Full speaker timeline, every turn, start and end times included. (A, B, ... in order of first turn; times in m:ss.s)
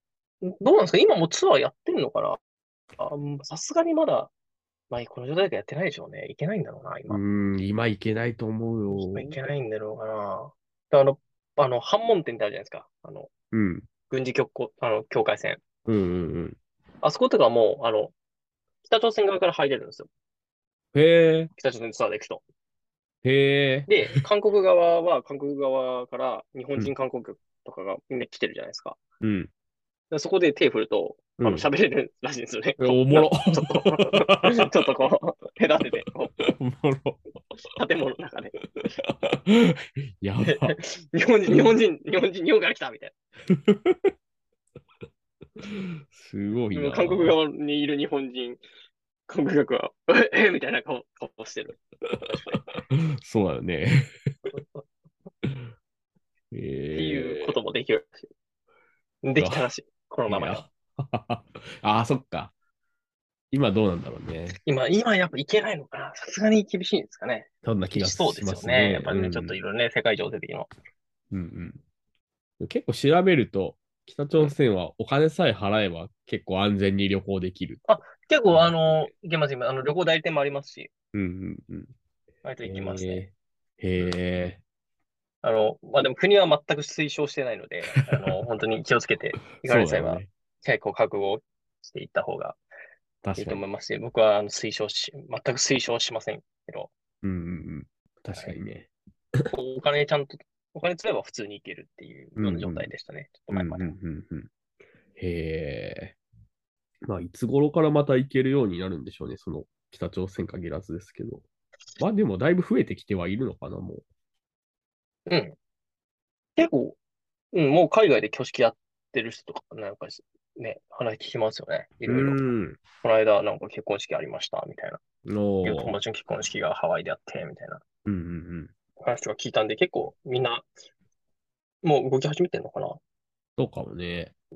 0:00.4-0:02.4 A
0:03.0-0:04.3 A
0:04.9-0:07.2 A
0:07.1-0:09.3 B
0:08.9-0:13.3 A
0:13.5-0:13.9 B
0:14.1-0:15.6 A
0:15.8-0:16.6 B
0:17.0-0:18.1 A
0:18.8-0:20.1 A
0:20.9-0:21.5 B
0:21.6-0:22.4 A
0:23.2-0:23.9 B
0:23.9-0:29.0 A
0:29.2-0:29.5 B
0:30.1-0:36.3 A
0:31.4-0:31.6 B
0:32.8-0:34.7 B
0:36.4-0:37.2 B
0:37.8-0:38.6 A
0:39.0-0:40.8 B
0:40.4-0:43.1 A
0:43.5-0:44.1 B
0:45.6-0:47.4 B
0:46.7-0:48.6 A
0:49.3-0:52.6 A
0:52.1-0:54.3 B
0:54.5-0:54.8 A
0:56.5-0:57.6 B
0:56.9-0:58.3 A
0:59.2-1:00.6 A
0:59.4-0:59.7 B
1:00.3-1:02.5 B
1:03.5-1:04.6 B
1:04.6-1:10.7 A
1:07.6-1:09.6 B
1:11.3-1:11.8 B
1:12.6-1:17.8 B
1:17.9-1:20.9 A
1:21.1-1:21.9 B
1:22.4-1:23.2 A
1:22.6-1:24.6 B
1:25.4-1:32.6 A
1:29.6-1:30.3 B
1:33.2-1:33.6 B
1:33.4-1:36.9 A
1:37.2-1:38.9 B
1:39.5-1:43.9 A
1:42.4-1:42.9 B
1:43.5-1:44.5 B
1:45.2-1:46.2 B
1:47.0-1:51.4 B
1:52.0-1:54.0 B
1:55.3-1:55.6 A
1:56.6-1:57.0 A
1:57.5-2:02.4 A
2:02.0-2:02.8 B
2:03.0-2:05.0 A
2:05.2-2:06.0 B
2:05.6-2:07.8 A
2:08.0-2:08.7 B
2:09.0-2:10.7 A
2:11.8-2:13.0 A
2:13.6-2:14.3 B